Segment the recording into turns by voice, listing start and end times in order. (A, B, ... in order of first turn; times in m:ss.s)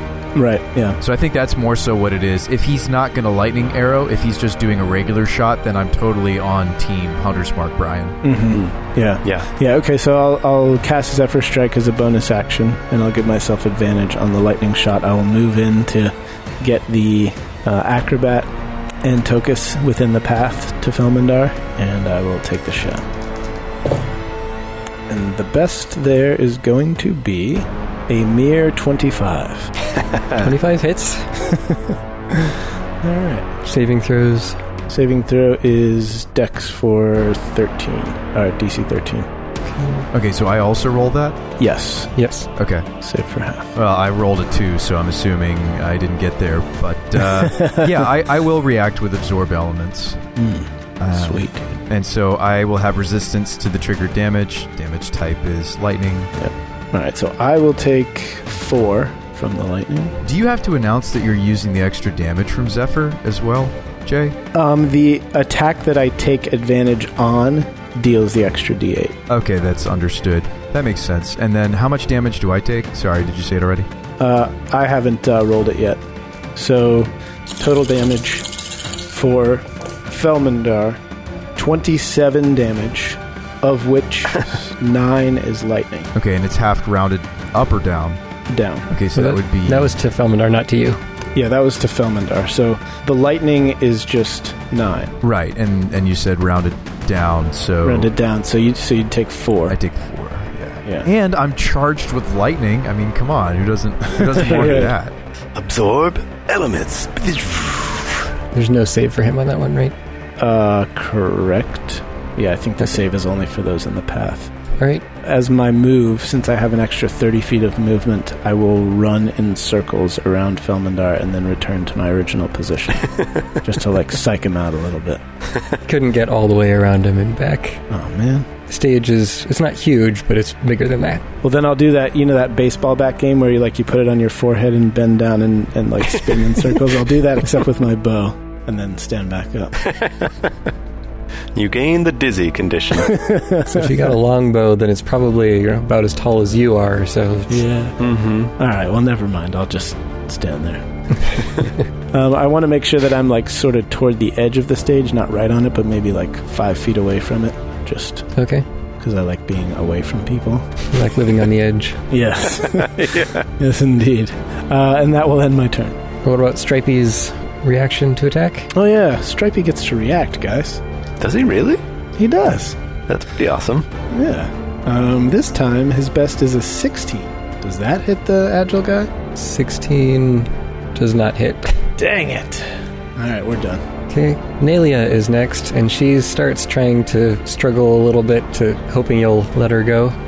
0:00.4-0:01.0 A
0:01.0-0:08.2 B
0:08.2-0:18.5 A
0:19.0-0:23.1 A
0:25.1-0:29.7 A
0:30.4-0:31.4 C
0:31.4-0:33.5 A
0:33.6-0:34.6 C
0:34.9-0:39.3 A
0:39.7-0:40.1 C
0:40.1-0:41.4 B
0:41.6-0:42.1 A
0:42.2-0:42.5 C
0:42.6-0:42.9 B
0:43.0-0:43.7 A
0:43.8-0:50.2 B
0:47.2-0:48.1 A
0:50.4-0:51.7 A
0:51.0-0:56.3 B
0:56.4-1:00.2 A
1:00.2-1:04.4 B
1:04.5-1:09.2 A
1:09.3-1:13.9 B
1:14.2-1:16.0 A
1:16.5-1:18.5 A
1:19.0-1:21.0 A
1:21.6-1:26.1 A
1:26.2-1:28.2 B
1:28.5-1:28.9 A
1:28.9-1:29.9 B
1:29.1-1:31.0 C
1:31.4-1:35.2 A
1:35.2-1:38.1 B
1:37.8-1:39.8 A
1:39.7-1:45.1 B
1:44.2-1:44.9 A
1:45.5-1:48.3 D
1:48.5-1:49.9 C
1:50.4-1:54.5 A
1:54.8-1:55.0 C
1:55.2-2:05.2 A
2:05.9-2:07.8 C
2:07.9-2:08.5 A
2:08.7-2:11.2 C
2:11.4-2:19.8 A
2:19.8-2:20.5 D
2:21.5-2:23.2 D
2:23.0-2:23.9 A
2:23.7-2:27.7 C
2:27.5-2:28.0 A
2:28.0-2:28.5 D
2:28.6-2:31.4 A
2:32.1-2:38.3 A
2:38.4-2:38.7 C
2:39.0-2:40.7 A
2:40.9-2:42.0 C
2:42.1-2:46.0 A
2:42.6-2:43.4 D
2:46.2-2:48.7 C
2:48.7-2:50.8 A
2:51.2-2:51.8 D
2:52.2-2:52.8 A
2:53.1-2:53.8 D
2:54.1-2:59.1 A
2:59.4-3:01.8 C
3:02.0-3:03.8 A
3:04.1-3:10.2 C